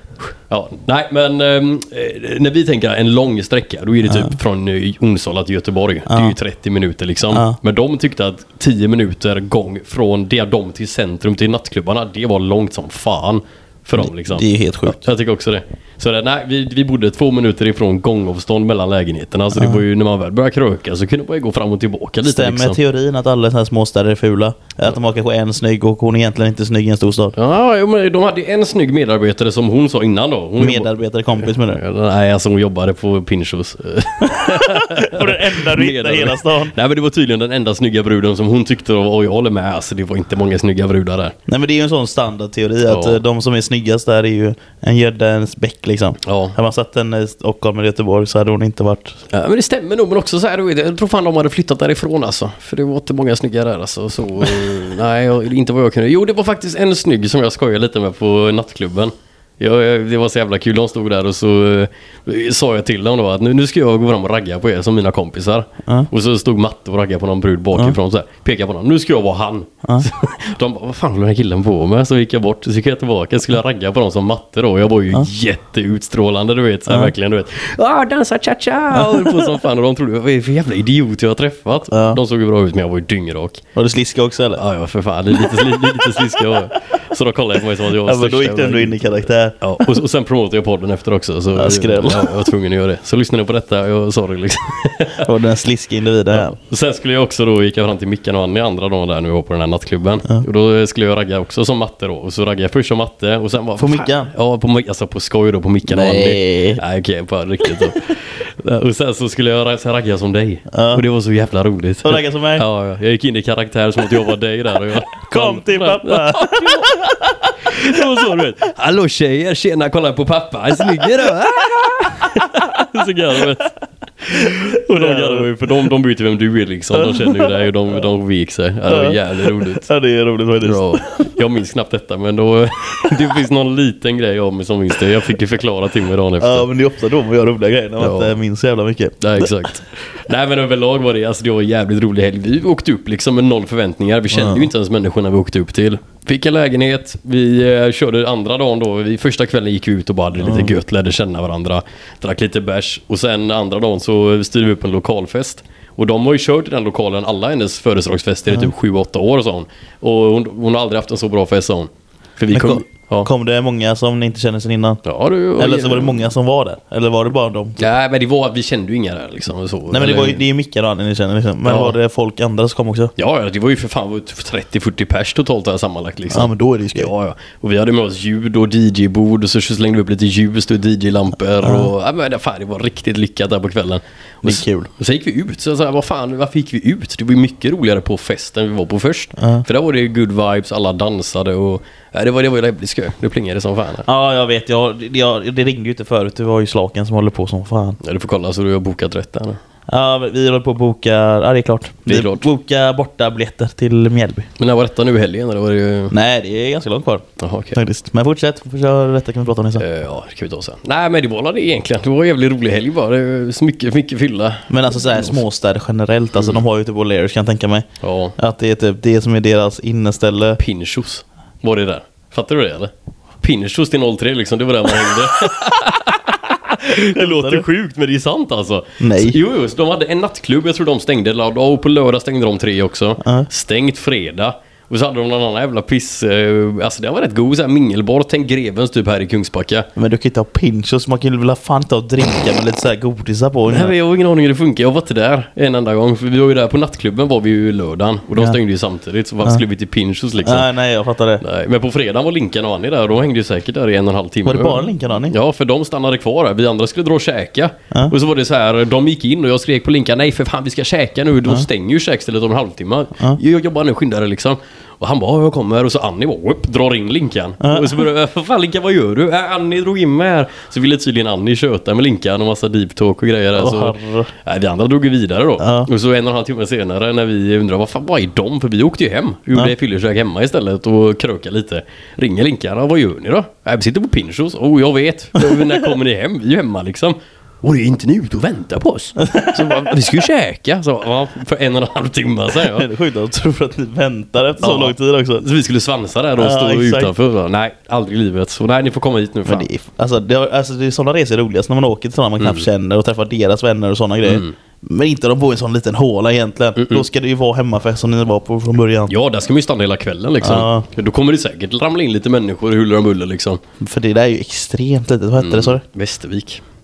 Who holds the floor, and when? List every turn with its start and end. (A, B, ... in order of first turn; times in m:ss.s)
0:00.4-0:22.8 A
0:04.0-0:04.3 B
0:06.1-0:06.4 B
0:07.3-0:07.6 B
0:14.0-0:15.0 B
0:19.5-0:19.8 B
0:22.2-0:27.3 B
0:27.3-0:30.9 A
0:30.6-0:31.8 B
0:31.5-0:41.4 A
0:34.2-0:36.7 B
0:41.5-0:49.2 B
0:42.9-0:43.2 A
0:46.2-0:46.6 A
0:49.3-1:23.6 A
1:16.9-1:17.1 B
1:18.9-1:19.6 B
1:21.9-1:22.2 B
1:23.7-1:24.6 B
1:24.5-1:29.1 A
1:25.3-1:26.6 B
1:28.0-1:30.0 B
1:29.6-1:35.3 A
1:31.5-1:32.5 B
1:35.2-1:36.6 B
1:36.3-2:09.9 A
1:43.8-1:44.3 B
1:45.9-1:46.8 B
1:47.6-1:47.9 B
1:50.7-1:51.0 B
1:52.0-1:52.6 B
1:55.2-1:58.0 B
2:04.4-2:05.5 B
2:06.9-2:07.6 B
2:08.9-2:11.3 B
2:10.6-2:16.7 A
2:16.4-2:19.6 B
2:18.0-2:18.4 A
2:19.2-2:43.3 A
2:24.3-2:24.7 B
2:30.4-2:30.8 B
2:42.5-2:45.0 B
2:45.0-2:46.3 A
2:45.6-2:47.8 B
2:47.8-2:50.4 A
2:49.9-2:53.1 B
2:51.6-2:52.0 A
2:53.2-3:14.0 A
2:56.3-2:57.1 B
3:01.6-3:01.9 B
3:04.4-3:04.9 B
3:09.4-3:09.6 B
3:14.1-3:18.0 B
3:18.0-3:19.6 A
3:19.9-3:24.5 B
3:22.1-3:22.4 A
3:24.6-3:26.1 A
3:26.1-3:29.8 B
3:27.4-3:27.8 A
3:29.8-3:35.4 A
3:34.7-3:40.6 B
3:38.0-3:38.4 A
3:40.6-3:59.9 A
3:47.1-3:47.7 B
3:49.0-3:49.4 B
3:53.2-3:53.5 B
4:00.0-4:03.9 B
4:03.7-4:10.7 A
4:10.4-4:11.4 B
4:11.4-4:52.8 A
4:14.4-4:15.3 B
4:27.6-4:28.1 B
4:33.6-4:34.3 B
4:35.6-4:35.9 B
4:45.4-4:45.8 B
4:49.2-4:50.0 B
4:52.5-4:55.4 B
4:54.6-4:59.7 A
4:56.4-4:57.1 B
4:59.4-5:09.1 B
5:04.2-5:04.5 A
5:06.8-5:07.0 A
5:09.1-5:13.6 A
5:10.4-5:10.8 B
5:13.8-5:15.8 B
5:15.4-5:16.6 A